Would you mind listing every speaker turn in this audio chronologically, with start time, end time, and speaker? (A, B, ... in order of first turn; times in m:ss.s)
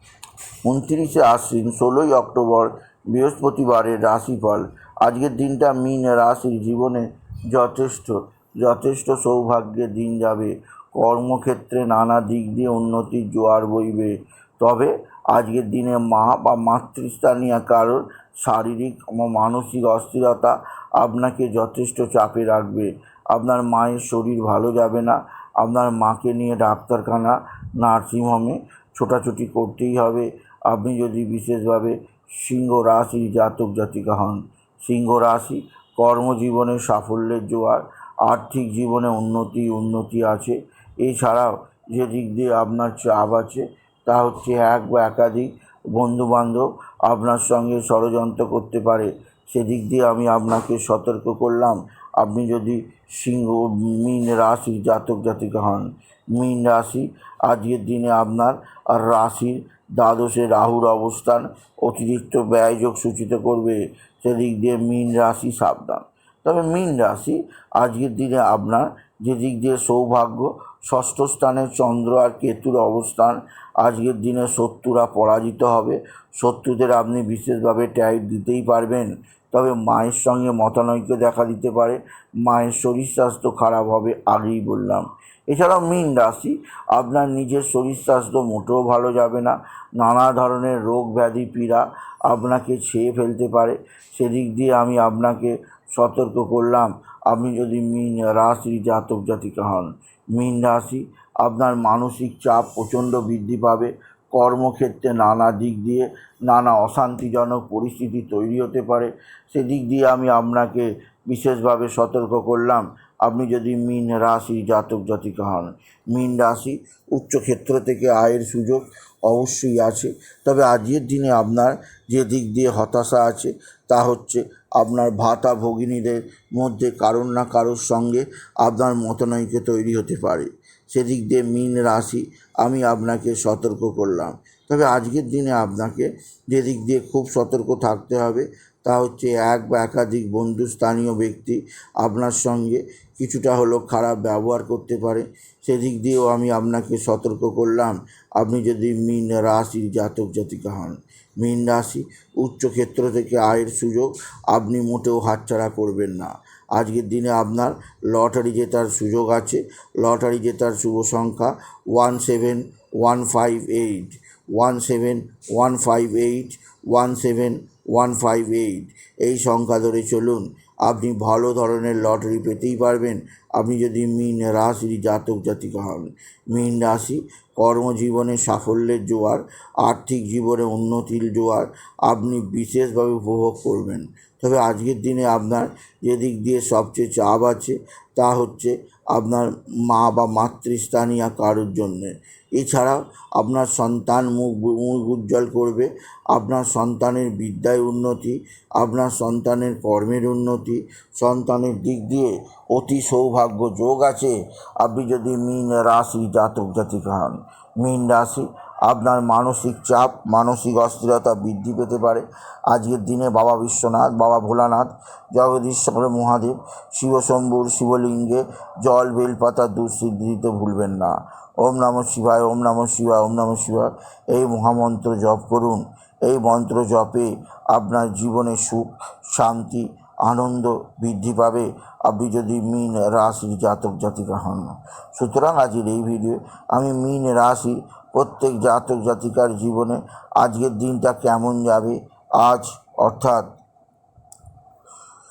0:00.6-4:03.5 A